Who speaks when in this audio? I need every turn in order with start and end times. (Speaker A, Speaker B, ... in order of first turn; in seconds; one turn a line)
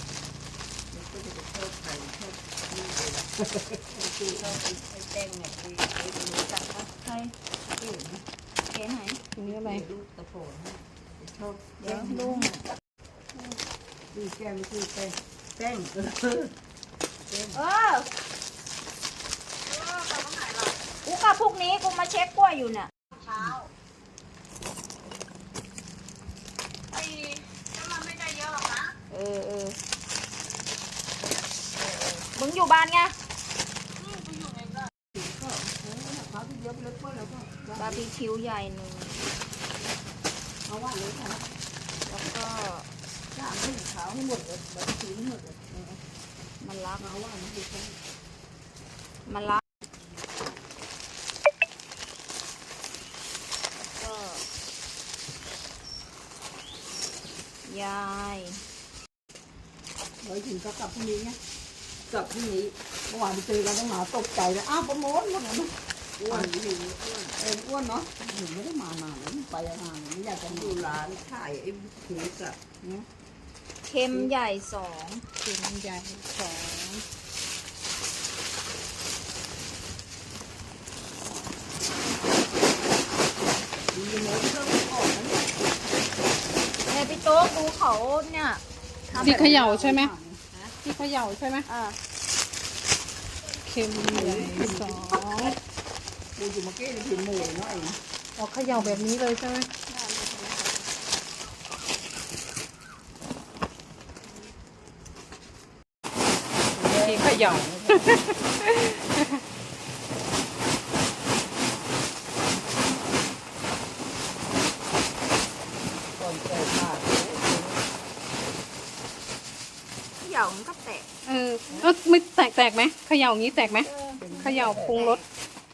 Speaker A: 0.9-6.9
Speaker B: 7.0-7.3
Speaker A: 7.7-8.2
Speaker B: 8.7-9.2
Speaker C: 9.4-9.8
Speaker A: 9.4-12.6
Speaker B: 11.8-12.7
Speaker A: 14.1-16.5
Speaker A: 17.3-17.6
Speaker B: 17.5-18.1
Speaker D: 19.8-20.6
Speaker B: 21.0-22.9
Speaker D: 27.8-28.9
Speaker B: 29.1-29.8
Speaker B: 31.8-33.1
Speaker A: 35.1-38.0
Speaker B: 37.8-39.3
Speaker A: 40.7-41.5
Speaker B: 42.1-42.9
Speaker A: 43.3-46.0
Speaker B: 46.6-47.1
Speaker A: 47.0-48.0
Speaker B: 49.3-49.6
Speaker B: 53.8-54.4
Speaker B: 57.6-58.6
Speaker A: 60.2-61.4
Speaker A: 62.1-73.1
Speaker D: 64.4-64.9
Speaker B: 73.9-75.2
Speaker C: 75.4-77.0
Speaker A: 83.9-85.8
Speaker B: 86.9-88.6
Speaker A: 89.1-90.4
Speaker D: 89.1-89.5
Speaker C: 89.1-90.1
Speaker C: 90.8-91.7
Speaker B: 91.7-92.0
Speaker C: 93.6-95.6
Speaker A: 94.1-95.0
Speaker A: 96.4-98.0
Speaker C: 98.4-99.7
Speaker A: 106.7-108.3
Speaker C: 106.9-109.4
Speaker A: 116.1-117.8
Speaker B: 120.2-121.1
Speaker C: 121.2-123.9
Speaker B: 123.6-125.2
Speaker A: 124.2-124.9
Speaker C: 124.4-125.2